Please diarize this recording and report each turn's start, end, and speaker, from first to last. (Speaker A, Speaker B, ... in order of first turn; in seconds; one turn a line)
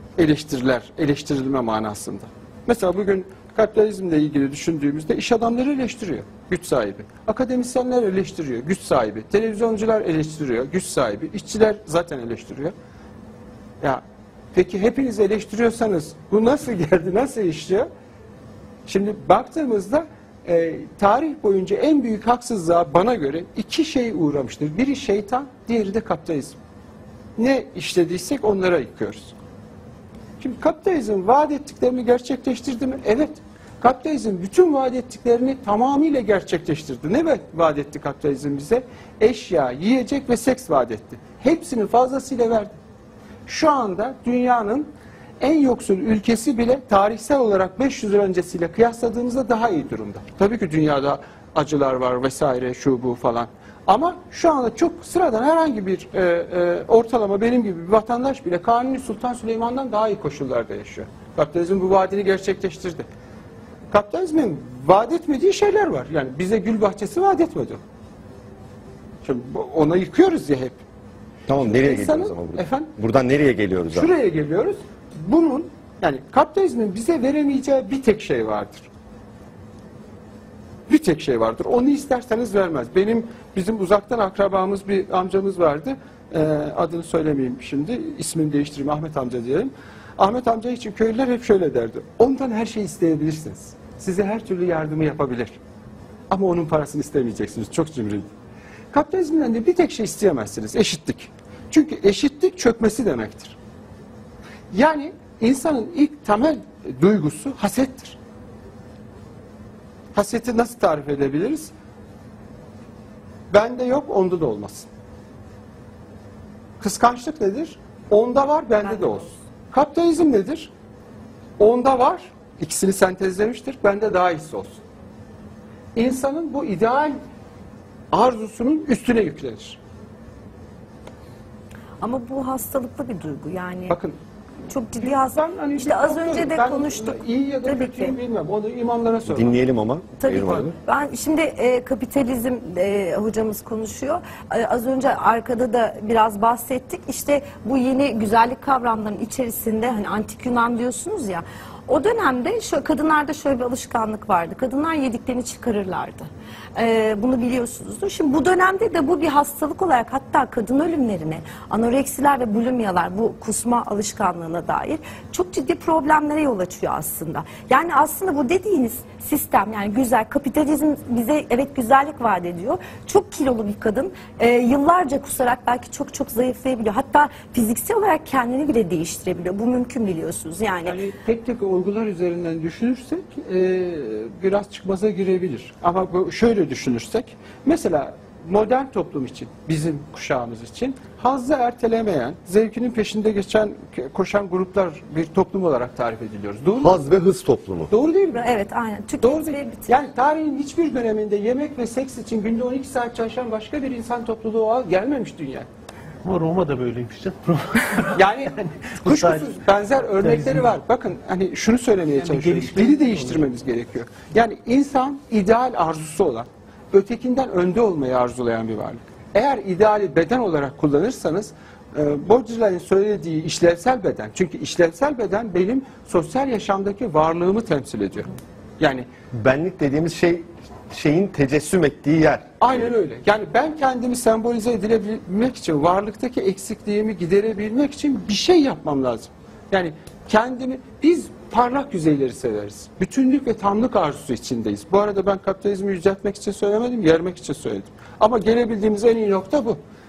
Speaker A: 0.2-12.7
Speaker A: 14.5-17.9
Speaker A: 18.9-26.6
Speaker A: 27.4-29.3
Speaker A: 30.4-42.7
Speaker A: 43.5-63.1
Speaker A: 63.9-67.8
Speaker A: 69.2-70.8
Speaker B: 71.5-74.1
Speaker A: 71.6-72.9
Speaker A: 73.9-78.9
Speaker A: 80.9-95.6
Speaker A: 96.3-98.3
Speaker A: 98.9-103.6
Speaker A: 104.7-108.2
Speaker A: 110.1-111.7
Speaker A: 113.5-114.9
Speaker A: 116.8-120.7
Speaker A: 121.6-124.8
Speaker A: 126.0-127.2
Speaker A: 128.1-129.8
Speaker C: 132.0-134.0
Speaker A: 133.9-134.2
Speaker C: 134.7-138.2
Speaker A: 135.0-139.6
Speaker B: 139.3-140.7
Speaker C: 140.2-181.0
Speaker A: 180.8-197.0
Speaker B: 196.8-197.9
Speaker A: 197.9-198.4
Speaker C: 198.3-199.9
Speaker A: 199.2-205.7
Speaker D: 206.2-209.6
Speaker A: 208.2-229.1
Speaker D: 210.2-210.7
Speaker D: 212.2-213.5
Speaker B: 229.3-232.5
Speaker A: 232.6-249.8